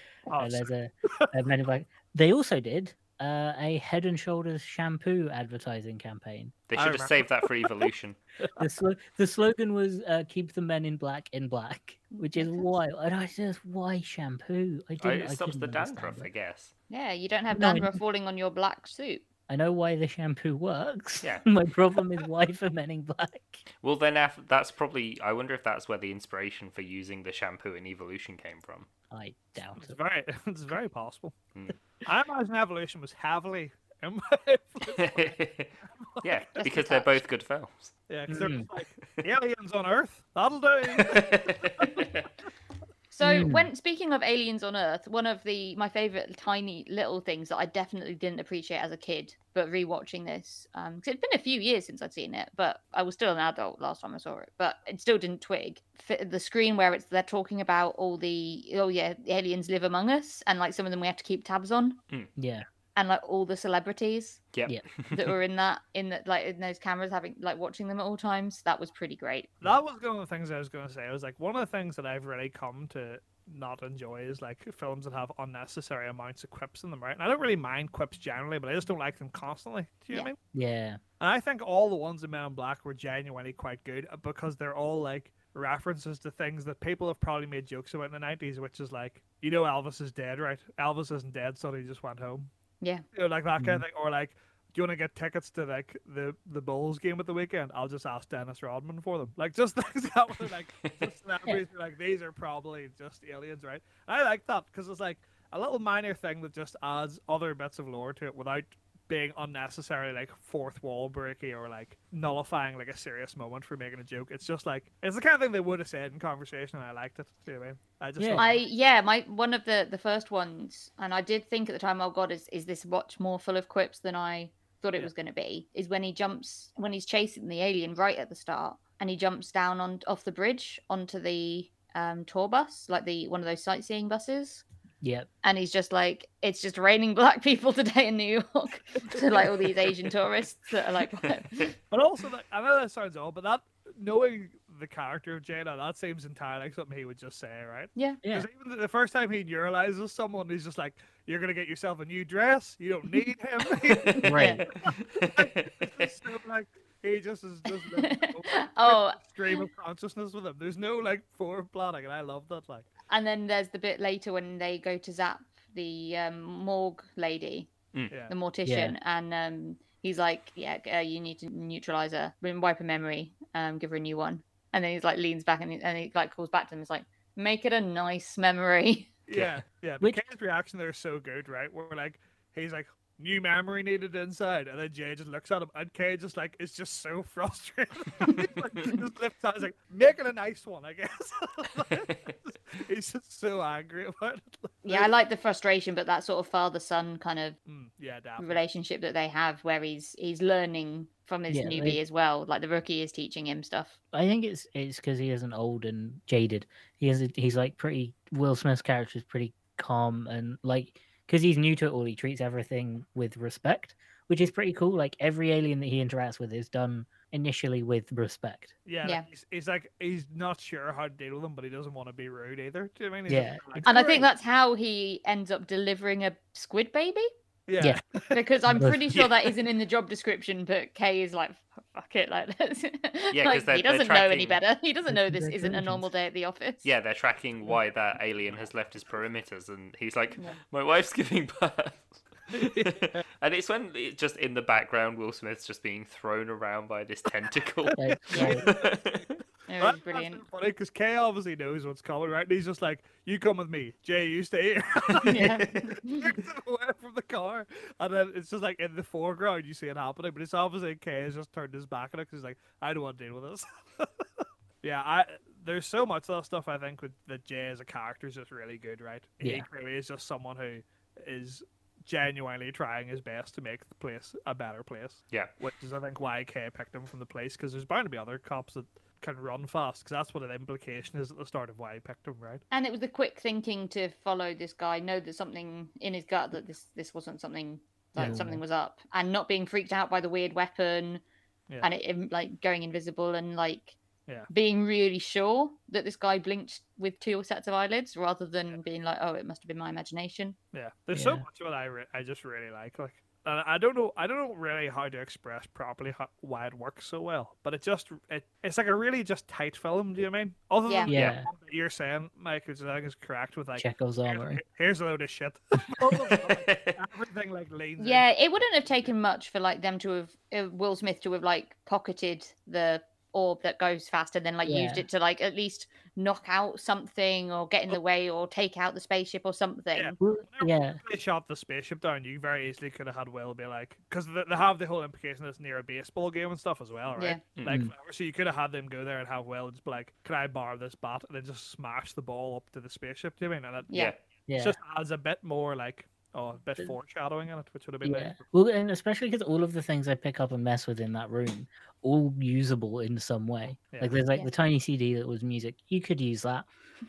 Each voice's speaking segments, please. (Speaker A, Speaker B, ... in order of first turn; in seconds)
Speaker A: 0.3-1.3, 6.8-7.5, 29.8-31.4, 32.0-35.4, 35.9-36.3, 38.1-42.1, 69.6-80.4, 81.2-92.5, 93.1-118.6, 139.2-139.5, 141.9-162.9, 179.3-195.1, 197.7-198.6, 218.9-224.3, 227.7-228.4, 242.5-243.2, 247.9-282.6, 288.2-288.5, 300.7-318.2, 329.9-344.0, 344.6-348.4
Speaker B: 0.4-6.6, 8.6-16.3, 17.5-18.0, 19.5-23.6, 29.1-30.0, 38.3-38.7, 43.2-43.7, 62.4-62.7, 80.5-81.0, 93.6-93.8, 118.2-118.5, 135.0-135.3, 148.2-148.5, 154.2-154.7, 168.7-169.0, 201.5-202.0, 204.1-218.7, 223.3-223.9, 228.7-229.1, 235.1-236.1, 248.0-248.7, 269.4-269.7, 288.2-288.6, 301.1-301.4, 311.1-311.5, 313.8-314.6, 324.6-325.1, 330.2-331.0, 337.7-337.9, 344.5-344.8, 348.0-356.7
Speaker C: 6.7-8.2, 15.0-16.7, 23.8-28.9, 34.9-37.9, 41.0-42.3, 64.5-65.2, 155.0-156.1, 233.3-234.6, 236.8-249.4, 316.4-317.0, 337.6-337.8
Speaker D: 12.1-12.7, 16.9-19.3, 36.6-37.1, 43.1-62.0, 63.0-64.5, 65.1-69.6, 118.4-134.6, 135.4-141.8, 154.0-154.6, 157.9-159.7, 163.1-167.7, 168.3-179.1, 194.8-197.6, 198.4-204.0, 223.8-227.3, 228.3-236.8, 248.3-248.6, 249.7-250.4, 255.2-256.4, 282.7-291.2, 291.8-294.0, 294.5-300.6, 310.9-311.1, 318.0-330.2, 337.1-337.4